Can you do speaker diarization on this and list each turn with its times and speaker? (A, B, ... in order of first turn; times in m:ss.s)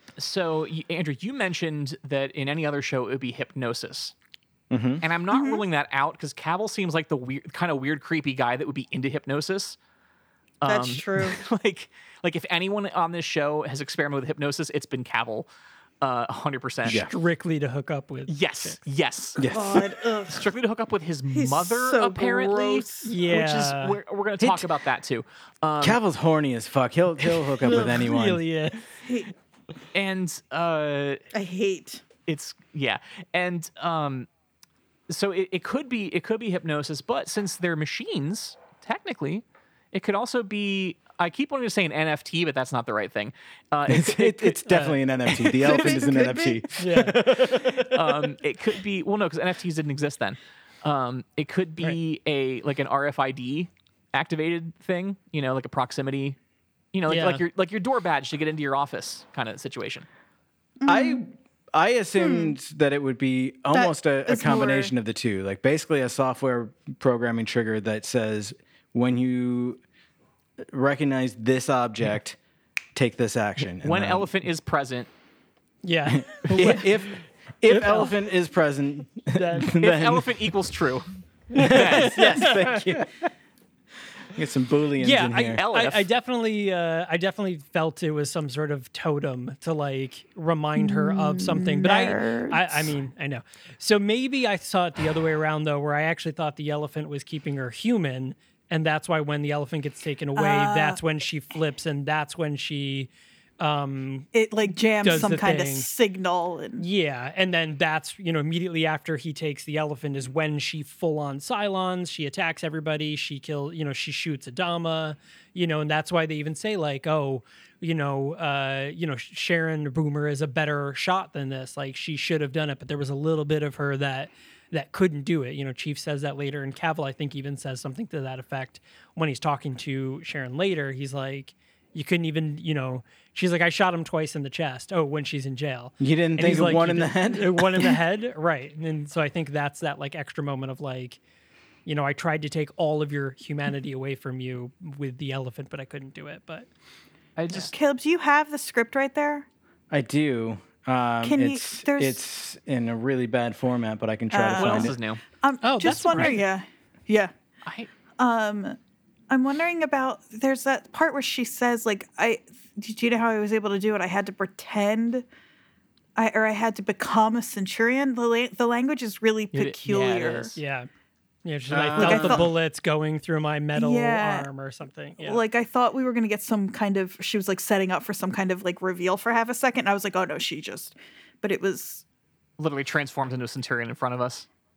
0:00.2-0:04.1 A
0:04.7-0:05.0 B
0:05.0-0:09.8 A
0:05.3-0:05.6 C
0:10.6-0:15.5 A
0:10.6-0:11.4 C
0:16.0-0:17.1 A
0:16.8-0:17.1 B
0:17.1-0:18.8 D
0:18.3-0:19.4 A
0:19.4-0:20.0 B
0:19.5-0:20.4 C
0:20.3-0:26.0 A
0:21.3-0:23.1 C
0:23.1-0:24.0 D
0:24.4-0:24.7 B
0:25.8-0:28.4 B
0:27.6-0:28.8 D
0:29.0-0:29.3 C
0:29.9-0:31.2 A
0:31.3-0:32.0 C
0:32.3-0:34.3 A
0:35.1-0:45.0 A
0:43.9-0:48.2 B
0:44.7-0:45.0 D
0:45.6-0:46.6 C
0:46.8-0:47.2 D
0:47.7-0:56.4 A
0:56.9-1:00.1 A
0:57.1-0:57.4 D
1:00.8-1:01.3 C
1:00.9-1:09.8 B
1:02.2-1:02.5 C
1:03.7-1:04.9 C
1:10.7-1:12.4 B
1:13.0-1:14.3 B
1:13.8-1:15.1 A
1:15.8-1:17.0 D
1:16.1-1:20.5 B
1:17.7-1:18.1 D
1:19.3-1:19.7 D
1:19.8-1:22.3 A
1:21.6-1:22.8 D
1:21.6-1:23.1 B
1:24.3-1:25.6 B
1:25.0-1:44.3 D
1:25.6-1:26.1 A
1:31.2-1:32.5 C
1:40.4-1:41.0 C
1:44.3-1:46.8 C
1:45.0-1:45.9 D
1:46.8-2:21.2 D
2:16.0-2:18.0 B
2:21.9-2:26.7 D
2:27.4-2:27.7 A
2:27.7-2:29.5 C
2:29.9-2:35.0 B
2:31.2-2:32.2 C
2:34.3-2:37.3 C
2:34.5-2:35.2 A
2:35.6-2:36.4 D
2:38.2-2:38.8 C
2:39.3-2:45.3 C
2:46.2-2:50.6 C
2:49.5-2:50.6 A
2:50.6-2:50.9 D
2:51.4-2:55.4 D
2:51.7-2:52.5 B
2:52.0-2:52.5 C
2:53.8-2:54.5 C
2:55.2-3:02.0 C
3:02.6-3:04.5 A